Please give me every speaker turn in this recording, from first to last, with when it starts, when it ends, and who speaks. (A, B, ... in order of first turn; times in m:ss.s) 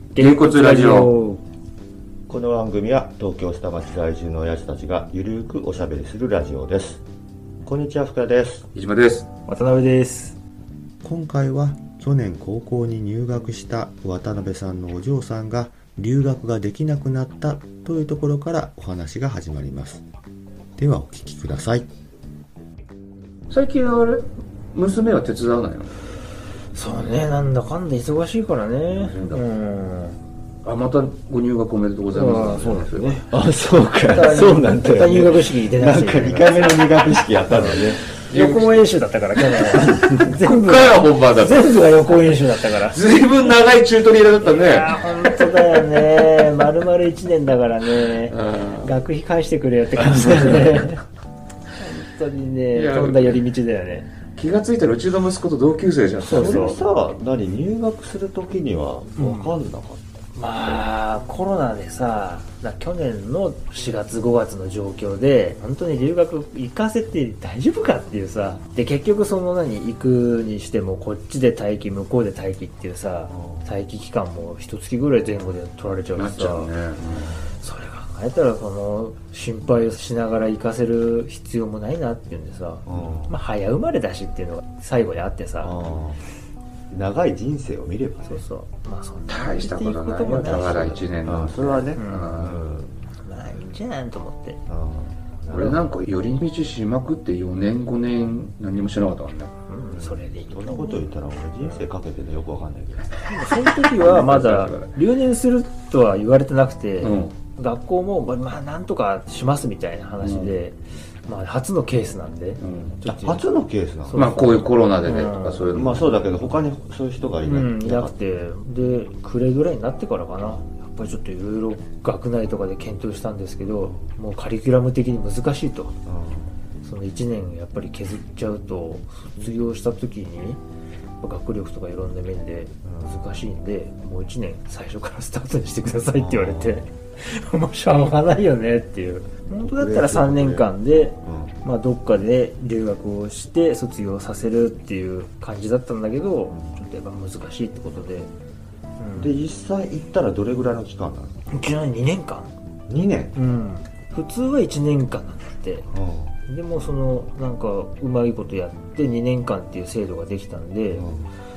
0:00.2-0:01.1 A
0:00.2-0:01.4 B
0:02.3-0:07.0 C
0:07.6-0:08.7 C
0:08.7-0:09.3 A
0:09.5-0:10.4 B
0:11.0-0:20.0 C
0:20.8-0:21.9 C
0:23.5-0:26.0 A
0:26.7-0:30.2 B
0:28.9-0:29.4 A
0:30.6-0:33.2 A
0:32.1-0:33.3 B
0:33.3-0:38.1 C
0:34.0-0:43.0 B
0:38.3-0:38.9 A
0:39.6-0:46.4 A
0:44.4-0:51.0 B
0:48.1-0:49.0 A
0:51.8-0:54.1 B
0:52.7-0:53.4 A
0:54.4-0:56.8 A
0:56.2-0:56.8 B
0:56.2-1:00.0 C
0:59.2-0:59.6 B
1:00.4-1:16.7 B
1:13.3-1:13.7 C
1:16.2-1:17.3 A
1:17.4-1:25.8 B
1:22.9-1:23.4 C
1:25.6-1:26.2 C
1:26.9-1:28.4 C
1:28.3-1:31.1 B
1:29.3-1:32.6 A
1:30.2-1:32.9 C
1:31.9-1:32.6 B
1:33.2-1:34.6 B
1:34.7-1:35.8 C
1:35.5-1:39.5 A
1:35.5-1:35.8 B
1:39.7-1:41.9 B
1:39.9-1:43.1 C
1:43.2-1:53.5 B
1:43.7-1:45.0 A
1:47.0-1:47.3 A
1:50.2-1:50.6 A
1:52.6-1:53.0 A
1:53.0-1:54.3 C
1:54.0-1:56.1 B
1:54.1-1:56.2 A
1:55.7-1:58.1 C
1:57.4-2:06.0 B
2:03.8-2:04.1 C
2:06.0-2:06.5 C
2:06.8-2:10.6 B
2:11.2-2:28.3 B
2:12.8-2:13.2 C
2:16.2-2:16.9 C
2:19.6-2:20.7 C
2:21.2-2:21.6 C
2:29.0-2:29.4 B
2:29.2-2:31.4 C
2:31.5-2:32.5 B
2:32.9-2:33.4 C
2:33.4-2:35.9 B
2:35.9-2:36.4 C
2:36.5-2:41.1 B
2:40.9-2:41.3 C